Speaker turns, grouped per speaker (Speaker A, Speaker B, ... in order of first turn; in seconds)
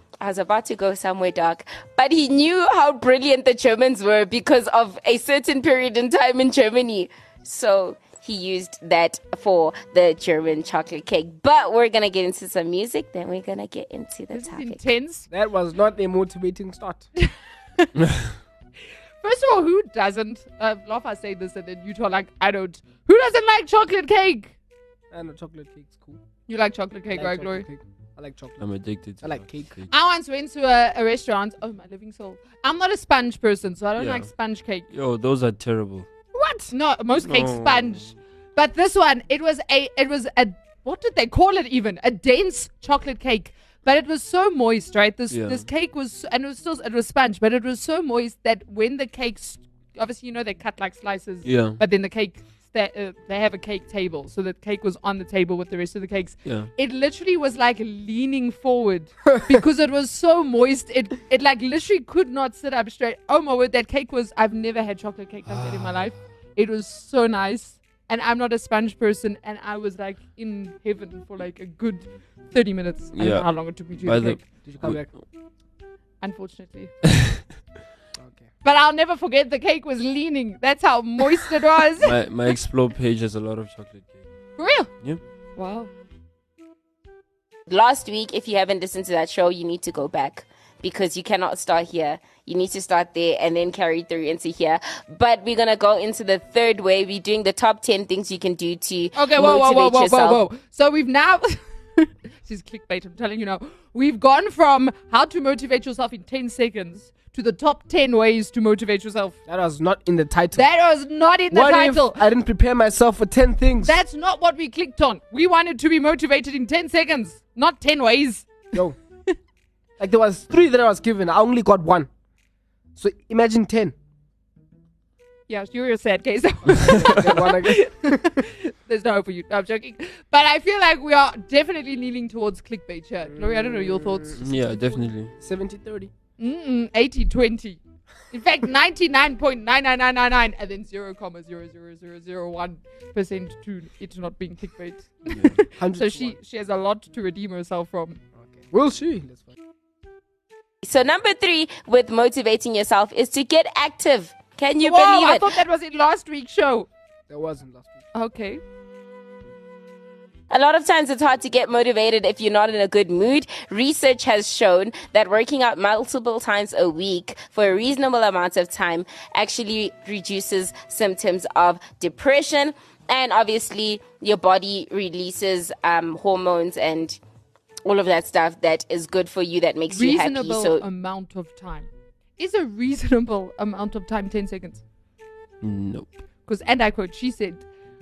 Speaker A: 0.2-14.8, 87.7-100.4, 150.8-155.6, 160.5-177.2, 177.8-180.8
Speaker B: 14.3-15.3, 17.2-17.9, 19.2-24.5, 26.5-27.6, 29.9-34.9, 36.7-74.4, 76.2-76.9, 78.6-82.1, 84.6-84.9, 85.5-85.9, 99.1-109.3, 110.5-112.2, 113.8-118.7, 125.5-134.6, 136.4-148.2, 154.8-156.9, 158.1-158.6, 179.9-184.8, 186.4-187.7
Speaker C: 15.3-17.1, 25.1-26.2, 27.1-28.6, 29.2-29.7, 36.3-36.7, 59.3-59.6, 74.6-75.1, 78.1-78.5, 109.5-110.7, 111.5-114.0, 120.0-122.1, 123.0-123.9, 126.7-128.4, 133.3-136.1, 145.8-146.4, 148.4-149.6, 157.3-158.0
Speaker D: 28.6-29.9, 34.0-34.3, 34.9-36.1, 37.2-38.1, 45.3-45.6, 51.4-51.8, 56.4-56.7, 65.5-66.0, 73.1-75.1, 82.0-84.2, 134.4-135.3, 145.3-145.6, 185.6-186.2